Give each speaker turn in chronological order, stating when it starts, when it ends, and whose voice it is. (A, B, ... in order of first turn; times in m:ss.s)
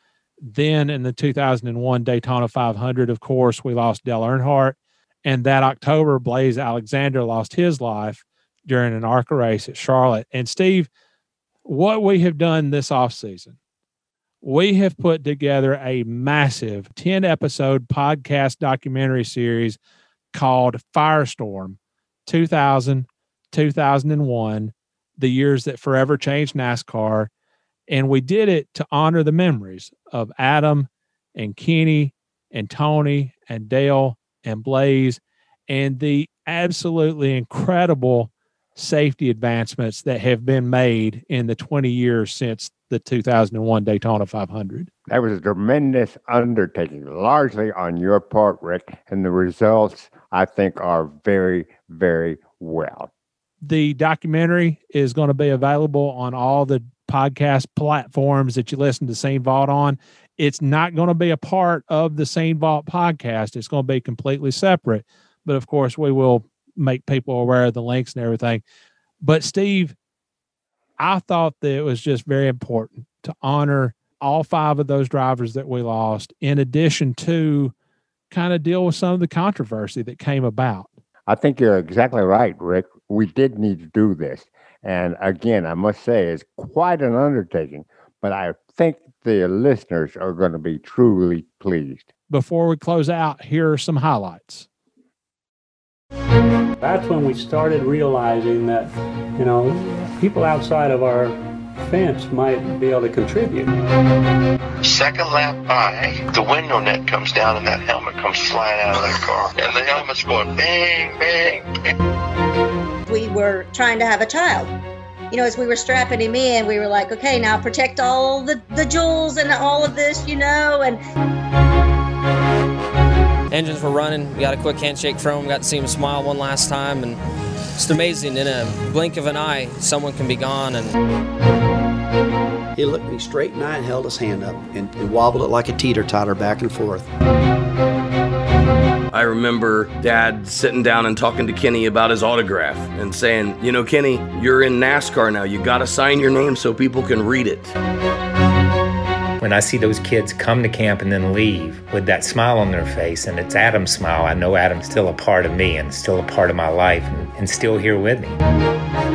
0:00.4-0:10.9 A
0:11.6-0:13.6 A
0:14.4-0:19.8 A
0:20.3-0:27.3 A
0:27.9-0:44.9 A
0:45.1-0:53.1 B
0:53.6-1:08.6 A
1:09.2-1:09.9 A
1:11.0-1:17.7 A
1:18.3-1:20.9 A
1:21.3-1:32.1 B
1:32.3-1:34.7 A
1:36.8-1:43.7 C
1:44.8-1:51.8 D
1:53.0-1:54.7 E
1:55.3-2:01.0 E
2:03.5-2:07.2 F
2:07.8-2:11.0 F
2:12.8-2:17.1 G
2:19.1-2:27.7 H
2:29.4-2:38.4 I